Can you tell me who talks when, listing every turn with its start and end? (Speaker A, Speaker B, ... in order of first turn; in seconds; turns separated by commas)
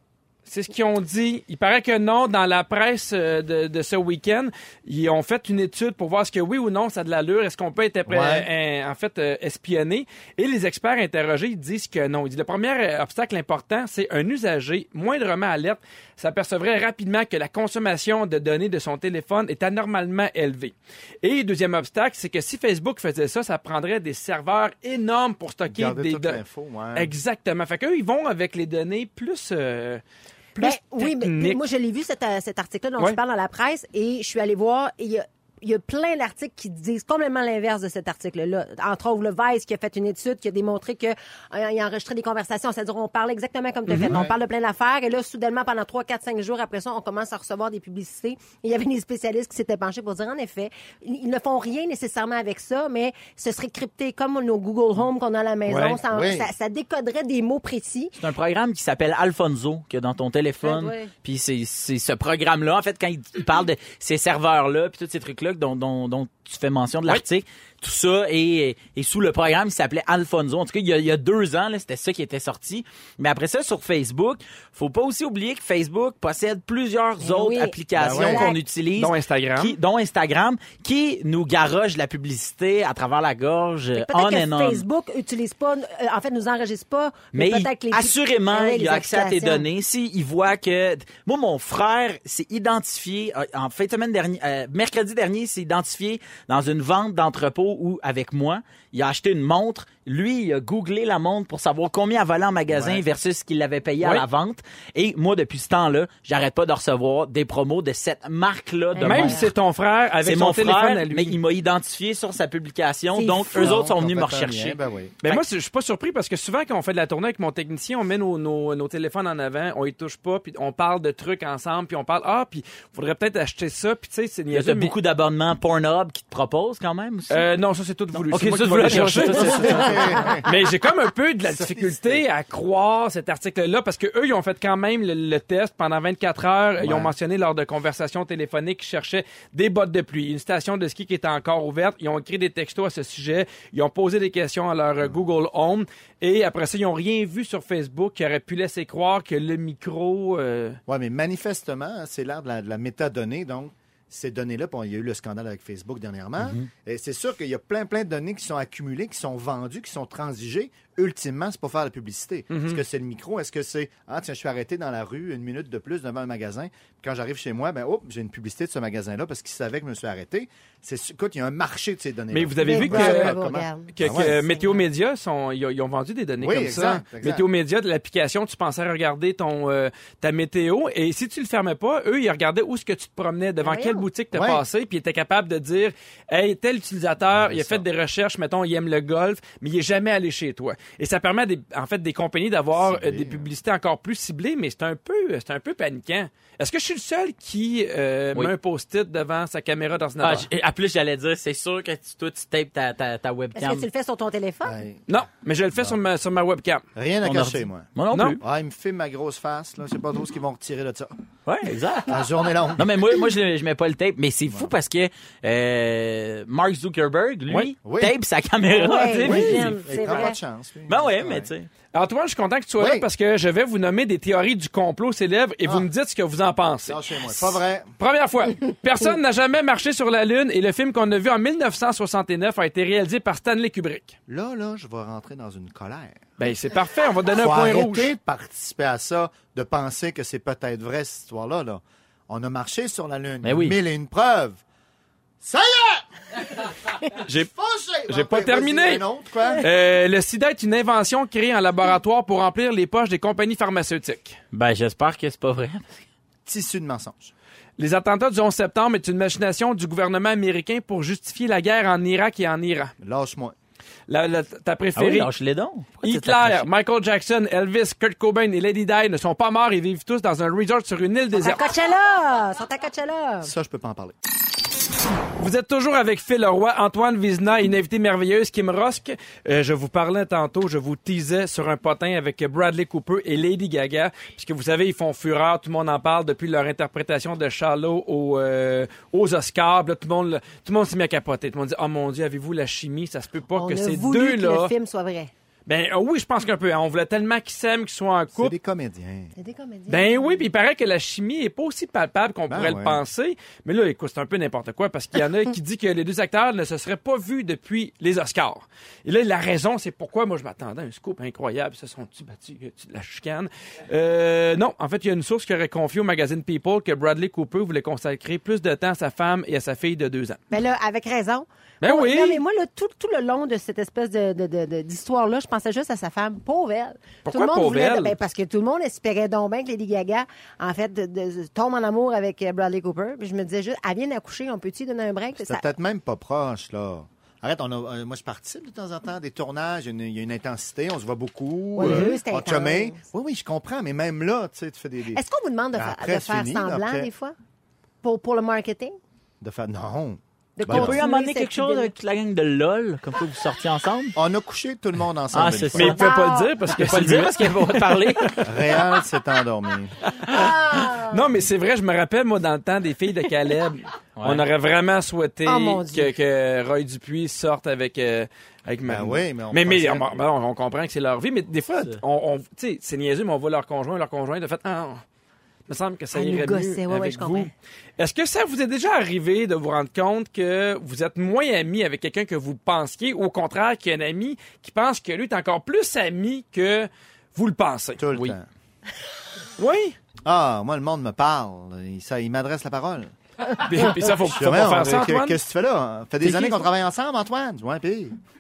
Speaker A: 0.5-26.4, Speaker B: 8.1-8.5, Speaker B: 25.7-27.1, Speaker A: 26.9-30.0, Speaker A: 30.6-31.6, Speaker C: 30.6-58.2, Speaker B: 44.0-44.3, Speaker A: 55.7-56.0, Speaker B: 56.1-56.5, Speaker D: 58.2-84.8, Speaker C: 60.6-61.1, Speaker C: 77.2-78.6, Speaker B: 78.0-78.5, Speaker A: 79.0-79.8, Speaker C: 84.0-89.7, Speaker D: 87.3-109.5, Speaker B: 102.7-103.0, Speaker C: 108.9-109.5, Speaker A: 109.0-111.4, Speaker D: 110.2-115.4, Speaker C: 113.2-113.8, Speaker B: 113.5-115.2, Speaker A: 115.2-124.9, Speaker D: 124.5-127.5, Speaker A: 127.3-150.8, Speaker D: 128.3-130.2, Speaker B: 129.6-130.5, Speaker B: 131.5-132.2, Speaker B: 136.8-137.1, Speaker B: 150.9-174.3, Speaker D: 156.4-156.7, Speaker A: 162.5-162.8, Speaker A: 172.3-173.4, Speaker C: 172.6-174.8, Speaker A: 173.9-200.5, Speaker B: 176.4-177.5, Speaker C: 183.6-184.1, Speaker B: 184.3-184.6, Speaker B: 187.3-187.9, Speaker B: 192.7-193.5, Speaker D: 200.2-203.9, Speaker C: 203.6-204.8, Speaker B: 204.6-205.1, Speaker A: 205.1-206.8, Speaker B: 206.9-207.9, Speaker D: 207.2-208.4, Speaker A: 208.1-208.4, Speaker B: 208.4-211.1, Speaker D: 211.5-212.2, Speaker B: 212.1-213.0, Speaker D: 212.8-220.2, Speaker B: 214.5-214.7, Speaker B: 217.8-218.2, Speaker C: 218.8-220.4, Speaker A: 218.8-219.7, Speaker B: 219.2-221.5, Speaker D: 220.9-221.7, Speaker A: 221.9-234.2, Speaker B: 222.8-223.1, Speaker B: 226.9-227.9, Speaker B: 234.3-236.3, Speaker A: 236.4-238.1, Speaker B: 237.4-244.6, Speaker D: 243.4-243.8, Speaker B: 245.4-246.1, Speaker B: 247.3-249.7, Speaker A: 248.1-249.0, Speaker A: 249.6-254.4, Speaker D: 254.5-256.1, Speaker B: 256.4-257.3, Speaker A: 257.8-262.9, Speaker B: 263.0-263.6, Speaker A: 264.1-265.3, Speaker D: 265.0-266.7, Speaker A: 266.0-271.6, Speaker C: 271.4-273.5, Speaker B: 273.4-274.1, Speaker A: 275.4-294.7, Speaker C: 293.6-295.3, Speaker A: 295.7-298.5, Speaker B: 298.3-299.3, Speaker C: 299.4-300.5, Speaker A: 299.9-320.4, Speaker B: 302.5-303.0, Speaker C: 320.5-335.7, Speaker A: 321.8-322.4, Speaker A: 327.3-328.2, Speaker B: 335.4-345.2, Speaker C: 341.8-343.0, Speaker C: 345.1-347.4, Speaker B: 345.8-347.1, Speaker C: 348.0-349.0, Speaker B: 349.4-351.0, Speaker C: 350.6-351.9, Speaker D: 350.7-354.1, Speaker B: 354.2-356.0, Speaker D: 355.3-356.1, Speaker A: 355.7-358.5, Speaker C: 355.9-356.5, Speaker D: 356.7-358.4, Speaker B: 358.4-360.0, Speaker A: 360.1-375.0, Speaker C: 360.3-361.2, Speaker D: 364.2-364.5, Speaker C: 365.5-366.1, Speaker B: 368.9-370.2, Speaker A: 375.7-388.3, Speaker C: 376.1-377.5, Speaker B: 388.0-388.5, Speaker A: 389.6-390.0, Speaker B: 390.2-393.1, Speaker A: 393.6-395.4, Speaker B: 393.8-398.2, Speaker C: 396.3-396.5